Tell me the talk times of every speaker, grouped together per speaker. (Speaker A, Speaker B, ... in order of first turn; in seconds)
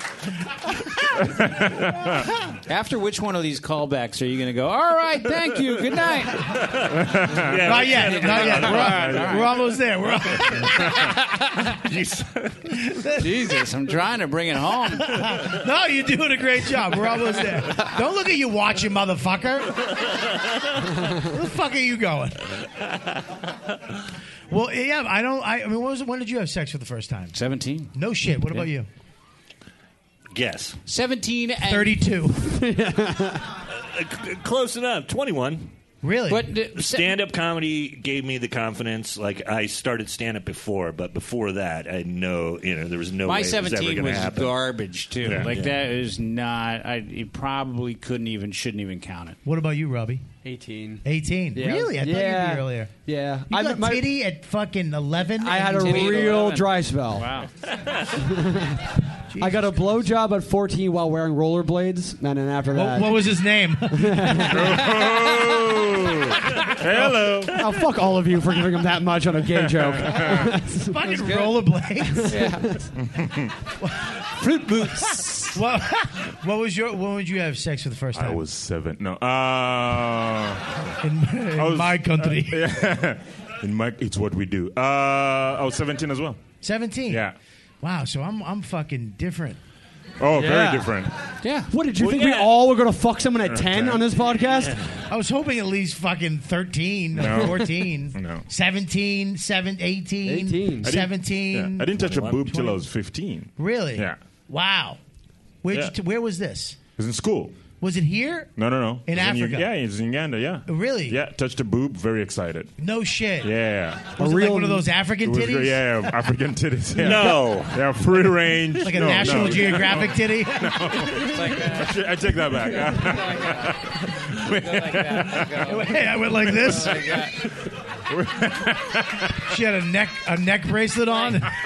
Speaker A: 1.4-2.1, 7.0-7.6, 8.6-9.4, 64.5-67.6, 69.6-70.5, 73.0-73.5, 78.1-80.6, 81.6-86.5, 87.1-87.3, 90.2-91.1, 93.5-94.1, 97.2-98.5, 100.8-104.2, 107.0-107.7, 108.6-112.7, 113.4-114.2, 115.2-125.5, 126.6-129.4
Speaker B: 2.7-6.6, 8.2-9.4, 11.2-11.6, 13.2-15.2, 27.3-28.7, 30.9-32.0, 36.3-37.1, 43.2-49.4, 55.7-57.5, 71.2-71.5, 72.2-72.8, 74.4-75.6, 91.4-91.7, 121.2-122.0, 122.7-123.7, 124.5-126.1, 126.7-127.3
Speaker C: 6.5-9.2, 11.7-13.0, 30.3-30.8, 33.7-35.7, 36.8-44.6, 45.2-45.8, 92.0-92.5, 94.3-94.9, 102.0-102.5, 117.0-117.8
Speaker D: 7.6-10.9, 12.9-13.6, 14.9-19.8, 21.1-22.5, 24.5-27.4, 27.9-28.9, 31.6-32.6, 36.0-36.5, 49.5-50.2, 51.0-52.9, 53.5-56.4, 59.3-60.0, 62.7-64.7, 66.9-67.4, 70.7-72.5, 75.5-78.4, 81.0-82.6, 86.6-87.2, 87.8-89.6, 95.0-102.9, 103.6-105.0, 105.6-106.8, 107.8-108.5, 109.1-109.7, 110.7-111.2, 112.8-113.5, 114.2-116.2, 118.8-121.2, 125.7-127.2, 129.4-131.6
Speaker E: 32.4-33.5, 50.4-54.1, 55.4-57.3, 58.2-63.2, 63.9-64.7, 67.5-71.0, 72.3-72.9, 90.3-91.1, 91.7-94.9, 100.2-101.0, 114.2-114.9